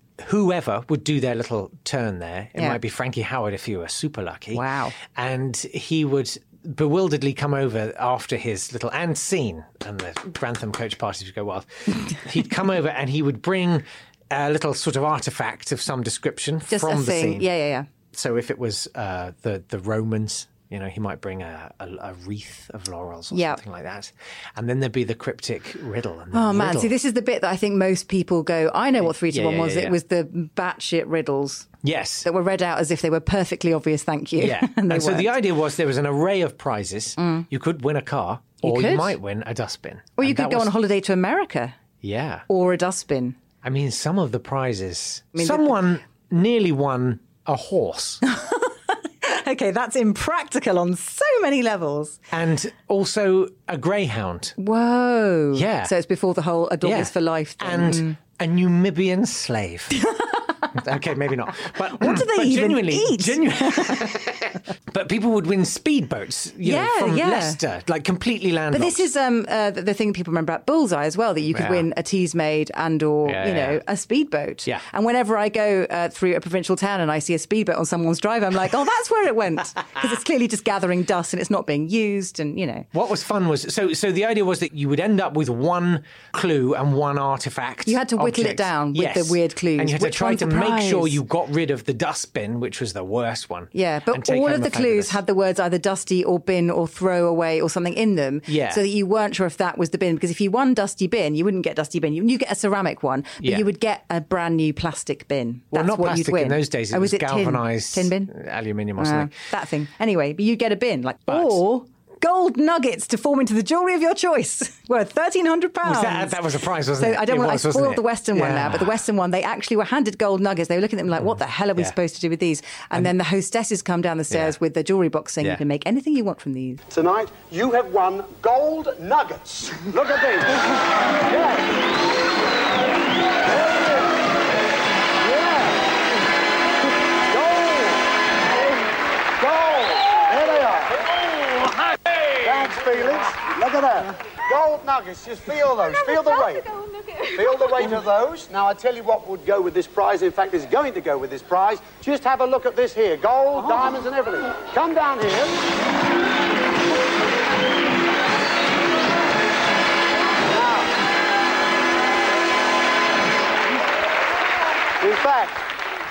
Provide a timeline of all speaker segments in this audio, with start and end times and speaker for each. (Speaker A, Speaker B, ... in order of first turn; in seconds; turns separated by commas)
Speaker A: 0.2-17.5, Speaker B: 4.5-5.0, Speaker B: 16.7-17.9, Speaker A: 18.1-26.9, Speaker B: 23.3-23.6, Speaker B: 26.3-31.7, Speaker A: 29.0-30.0, Speaker A: 31.8-32.3, Speaker B: 32.2-35.3, Speaker A: 34.4-40.7, Speaker B: 37.2-37.5, Speaker B: 38.6-39.1, Speaker B: 40.2-41.7, Speaker A: 42.0-42.4, Speaker B: 42.5-43.4, Speaker A: 43.6-48.2, Speaker B: 45.3-45.8, Speaker B: 48.2-52.2, Speaker A: 52.3-54.6, Speaker B: 54.6-58.2, Speaker A: 55.5-55.9, Speaker A: 56.8-60.0, Speaker B: 59.9-60.7, Speaker A: 60.7-69.0, Speaker B: 61.9-64.1, Speaker B: 66.6-67.6, Speaker B: 68.7-82.9, Speaker A: 71.5-71.9, Speaker A: 73.2-73.8, Speaker A: 82.9-95.2, Speaker B: 87.8-91.2, Speaker B: 93.7-108.3, Speaker A: 98.5-98.8, Speaker A: 103.4-103.7, Speaker A: 105.7-109.3, Speaker B: 109.0-116.4, Speaker A: 111.3-111.6, Speaker A: 115.8-119.0, Speaker B: 117.0-126.8, Speaker A: 121.2-121.9, Speaker A: 124.3-124.5, Speaker C: 126.9-131.7, Speaker C: 133.5-134.0, Speaker C: 135.2-135.7, Speaker C: 137.3-138.0, Speaker C: 139.4-141.2, Speaker C: 142.3-146.7, Speaker B: 146.5-147.3, Speaker C: 147.3-155.6, Speaker C: 160.5-160.9, Speaker C: 165.0-165.7